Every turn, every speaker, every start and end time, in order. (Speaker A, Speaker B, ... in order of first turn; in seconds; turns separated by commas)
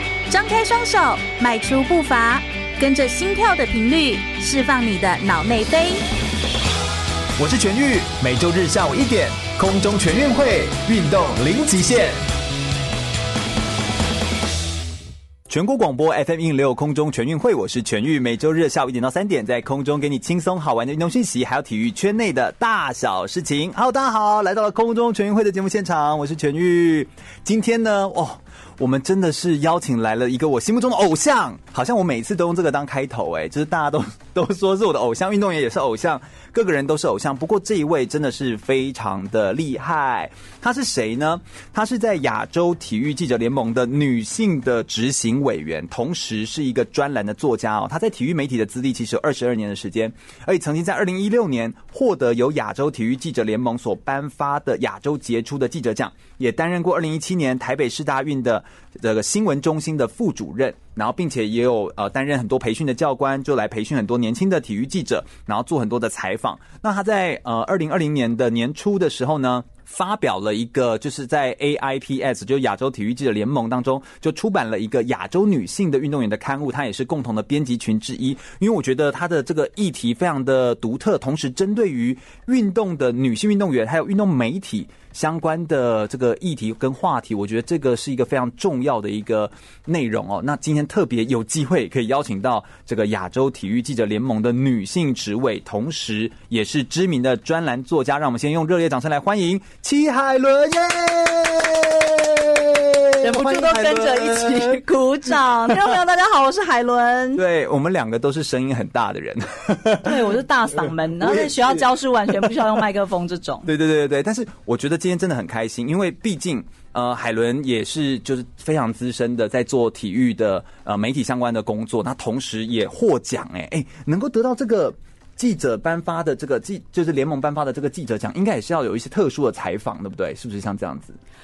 Speaker A: 0.3-6.0, Speaker B: 7.4-12.2, Speaker B: 15.5-104.8, Speaker C: 103.2-107.4, Speaker B: 107.3-112.8, Speaker C: 110.0-113.7, Speaker B: 113.7-131.2